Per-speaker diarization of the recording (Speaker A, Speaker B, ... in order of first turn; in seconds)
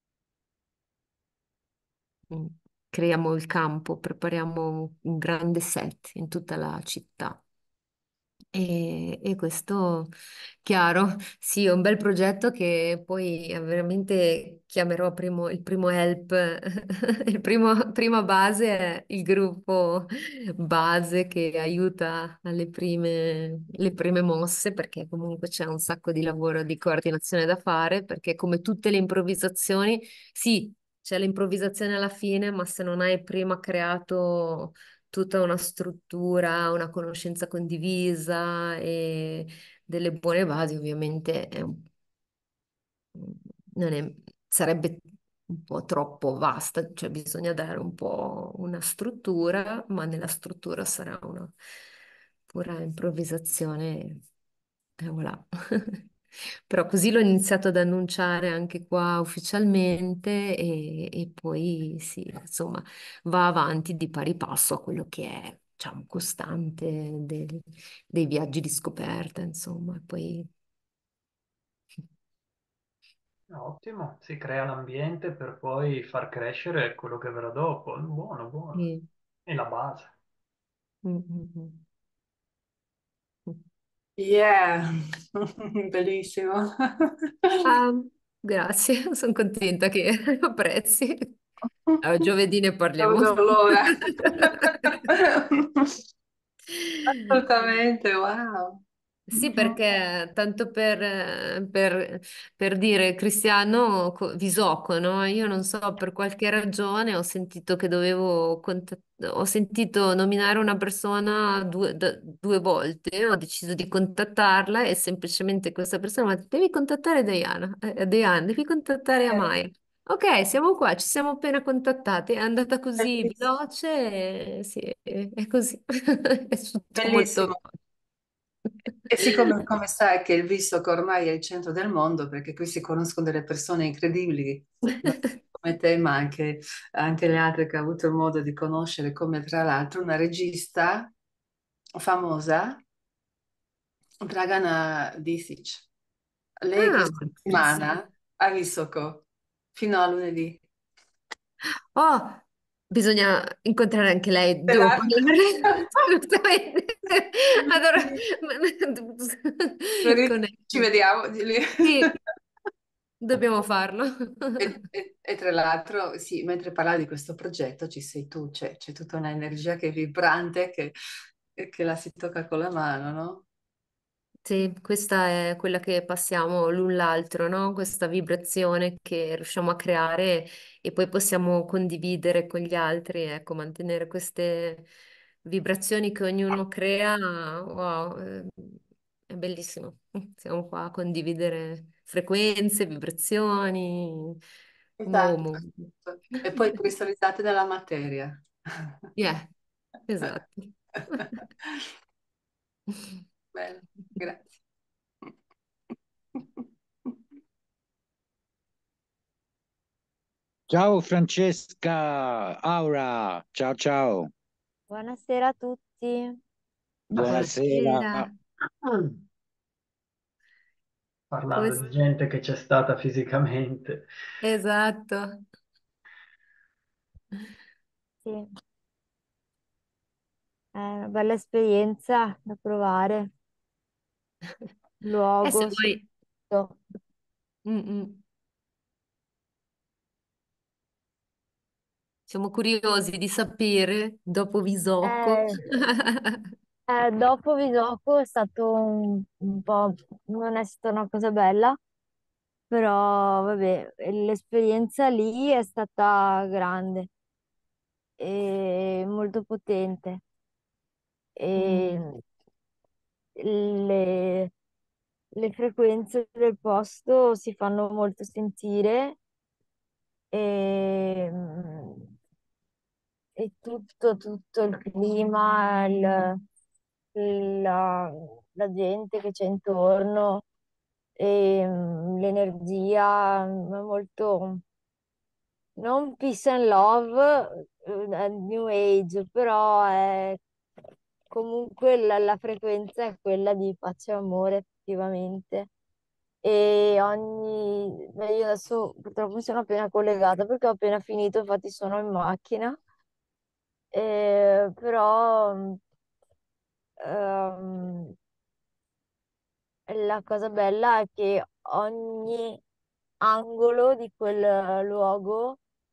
Speaker A: 2.3-7.4, 8.5-10.1, 10.6-41.9, 43.1-51.5, 52.5-54.2, 55.0-56.0, 56.7-70.5, 78.8-79.1, 81.0-81.8, 87.6-91.3, 92.0-94.9, 96.7-97.2, 99.3-127.6, 146.8-147.9, 151.9-160.9, 161.8-162.1, 163.2-164.7, 174.4-184.9, 185.4-194.4, 195.1-195.9, 199.2-199.5, 200.1-201.3, 202.9-203.2, 217.1-218.3, 221.5-221.8, 224.4-225.4, 235.4-236.0, 237.7-238.2, 242.3-246.5, 261.6-262.1
Speaker B: 73.5-78.9, 79.5-80.1, 218.9-219.1, 221.3-224.0
Speaker C: 84.2-87.6, 93.0-95.9, 97.1-98.8, 99.4-99.8, 123.0-123.3, 127.0-127.6, 129.1-141.1, 142.0-142.8, 144.2-145.9, 146.6-150.6, 154.7-155.2, 160.0-162.1, 164.6-170.9, 171.6-173.4, 195.0-198.9, 203.5-204.5
Speaker D: 210.7-214.3, 217.2-218.3
Speaker E: 214.9-216.4, 230.8-233.3, 235.0-236.0, 236.5-236.8, 245.0-245.6, 246.9-251.8, 252.7-257.1, 258.2-260.2, 261.4-262.1, 263.4-264.5, 265.4-269.2, 270.3-272.1, 273.4-276.4, 277.1-280.4, 281.2-284.6, 285.8-290.4, 291.3-295.7, 296.4-302.8, 303.9-305.8, 307.0-308.1, 309.9-312.6, 313.2-315.6